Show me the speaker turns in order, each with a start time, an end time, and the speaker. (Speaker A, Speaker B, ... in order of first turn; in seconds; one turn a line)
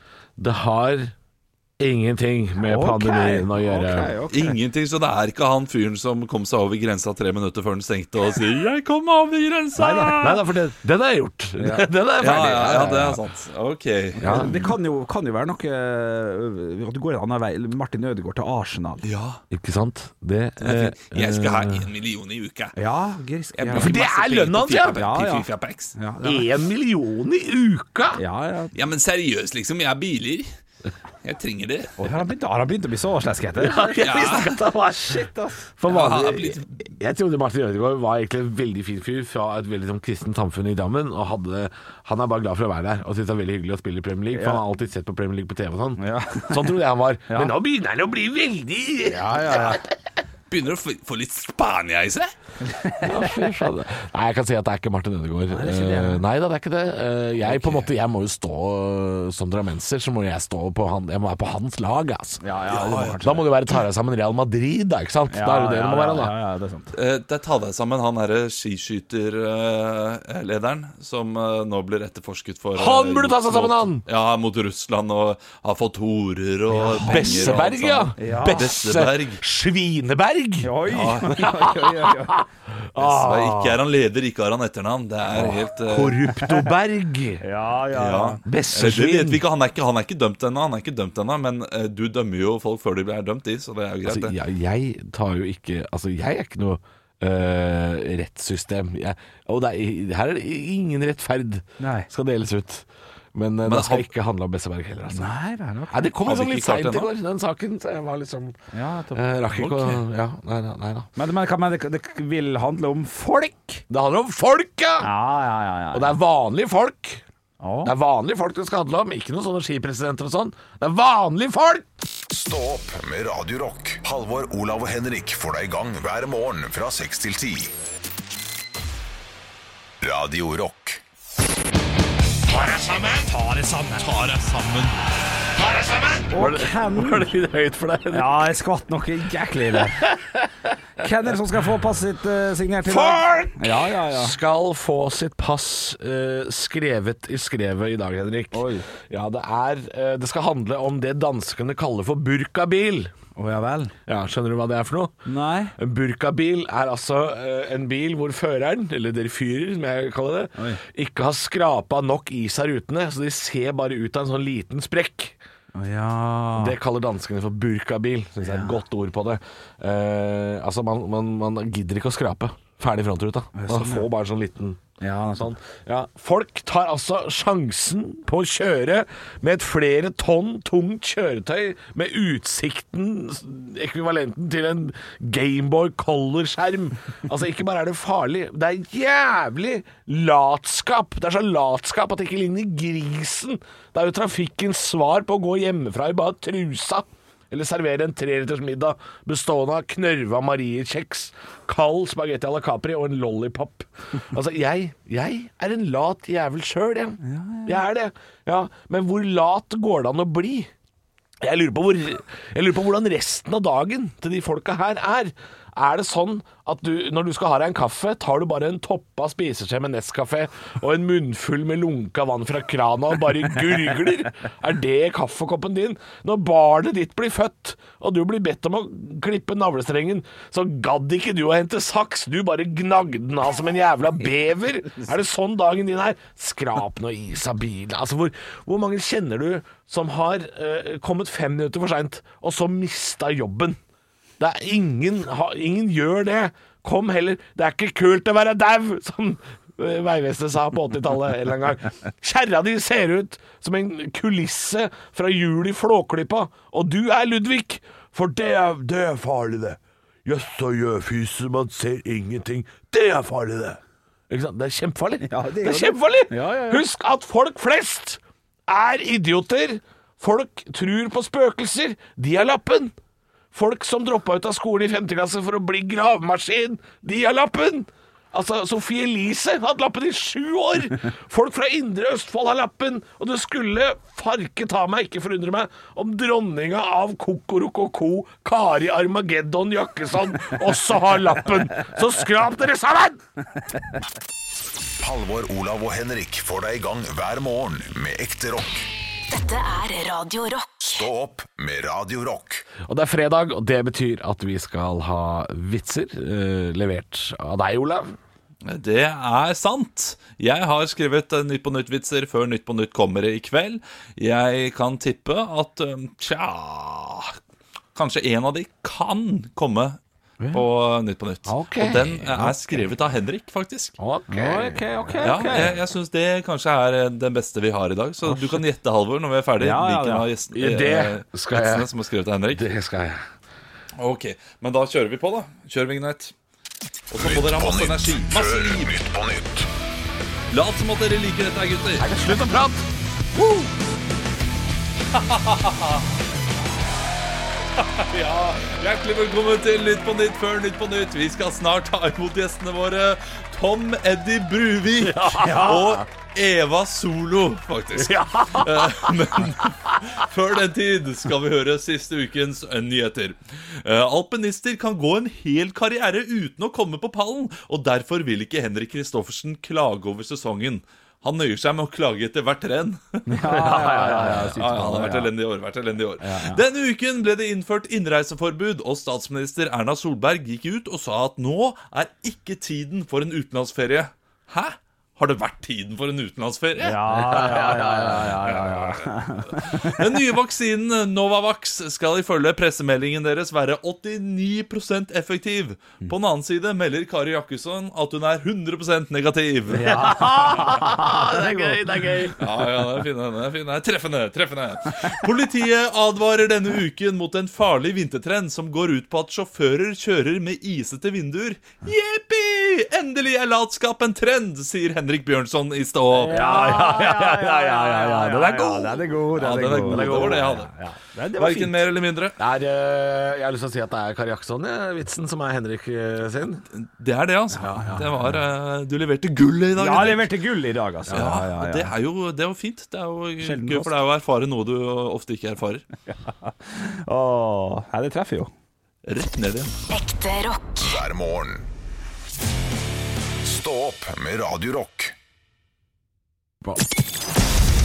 Speaker A: 0.4-1.1
Speaker A: 1.8-4.1
Speaker B: 2.6-4.6
Speaker C: 4.3-10.4
Speaker B: 9.8-10.2
Speaker A: 10.0-13.2
Speaker B: 11.6-11.9
Speaker C: 12.2-14.5
Speaker A: 14.2-14.7
Speaker B: 14.2-19.0
Speaker C: 19.0-19.4
Speaker A: 19.5-21.8
Speaker C: 20.6-22.7
Speaker B: 22.8-23.9
Speaker C: 23.6-25.9
Speaker A: 23.7-25.1
Speaker B: 24.9-26.5
Speaker A: 26.2-28.2
Speaker B: 28.1-28.7
Speaker C: 28.7-30.5
Speaker C: 31.2-32.0
Speaker B: 32.0-35.7
Speaker A: 33.6-49.8
Speaker C: 34.0-34.5
Speaker C: 35.9-36.7
Speaker B: 44.3-44.6
Speaker B: 46.0-47.5
Speaker B: 49.0-49.8
Speaker C: 50.5-52.3
Speaker B: 52.6-53.4
Speaker A: 53.0-66.3
Speaker B: 55.5-56.2
Speaker B: 57.4-57.8
Speaker B: 62.4-63.5
Speaker C: 62.7-63.2
Speaker B: 65.3-66.9
Speaker C: 66.9-79.4
Speaker A: 72.8-74.0
Speaker B: 76.7-77.6
Speaker A: 76.9-83.8
Speaker B: 78.2-78.7
Speaker B: 80.6-82.4
Speaker C: 80.9-81.3
Speaker C: 83.0-86.2
Speaker A: 85.3-87.4
Speaker B: 87.4-88.4
Speaker C: 87.9-94.3
Speaker A: 88.4-89.4
Speaker A: 94.0-105.3
Speaker B: 101.8-102.1
Speaker C: 103.7-104.0
Speaker B: 105.1-106.1
Speaker A: 105.9-108.6
Speaker C: 106.2-107.1
Speaker B: 108.7-109.3
Speaker A: 109.1-111.1
Speaker C: 109.5-110.0
Speaker B: 111.2-113.8
Speaker A: 113.9-115.1
Speaker B: 115.0-116.2
Speaker A: 115.9-117.2
Speaker B: 117.6-117.9
Speaker A: 117.8-121.8
Speaker D: 122.3-127.7
Speaker D: 130.0-131.0
Speaker A: 132.5-133.3
Speaker B: 133.2-134.1
Speaker C: 134.0-135.0
Speaker A: 135.6-138.5
Speaker B: 136.3-137.3
Speaker B: 138.1-140.0
Speaker A: 139.8-140.7
Speaker B: 141.0-144.3
Speaker A: 142.8-153.1
Speaker B: 148.5-148.9
Speaker B: 153.3-153.9
Speaker A: 154.1-155.1
Speaker B: 155.2-155.7
Speaker A: 155.8-165.4
Speaker B: 165.7-166.8
Speaker A: 166.6-174.8
Speaker B: 168.4-168.8
Speaker B: 173.5-174.1
Speaker B: 175.0-175.5
Speaker A: 175.3-210.7
Speaker B: 207.2-207.8
Speaker A: 211.4-243.8
Speaker A: 244.4-272.9
Speaker B: 265.2-266.8
Speaker A: 273.5-293.2
Speaker D: 295.0-298.9
Speaker E: 299.3-300.8
Speaker D: 300.8-302.7
Speaker A: 302.8-308.1
Speaker C: 308.6-317.4
Speaker C: 317.9-320.0
Speaker C: 320.5-323.9
Speaker A: 321.4-322.8
Speaker A: 324.0-325.8
Speaker B: 324.3-325.7
Speaker C: 325.2-332.7
Speaker B: 329.6-330.3
Speaker A: 330.5-331.9
Speaker A: 332.5-333.2
Speaker C: 334.0-336.3
Speaker C: 337.1-338.9
Speaker D: 337.2-339.7
Speaker C: 340.5-342.1
Speaker A: 342.0-342.8
Speaker C: 343.4-343.7
Speaker C: 345.1-346.0
Speaker C: 347.8-388.2
Speaker A: 355.0-356.1
Speaker B: 355.4-355.8
Speaker A: 357.9-360.1
Speaker B: 373.3-375.3
Speaker A: 373.5-374.6
Speaker B: 376.2-376.6
Speaker B: 386.8-390.1
Speaker A: 387.1-388.5
Speaker C: 389.7-400.0
Speaker B: 399.7-401.8
Speaker A: 399.9-402.7
Speaker C: 402.4-416.7
Speaker B: 416.2-421.9
Speaker A: 416.2-419.1
Speaker C: 419.3-420.7
Speaker A: 419.8-420.7
Speaker C: 421.4-422.4
Speaker A: 422.4-426.6
Speaker C: 426.7-430.3
Speaker B: 427.6-428.1
Speaker A: 427.6-428.2
Speaker B: 429.8-431.9
Speaker C: 431.1-435.8
Speaker B: 433.4-433.9
Speaker B: 436.1-438.5
Speaker C: 439.0-439.8
Speaker E: 439.9-440.9
Speaker D: 440.8-441.6
Speaker D: 443.4-445.1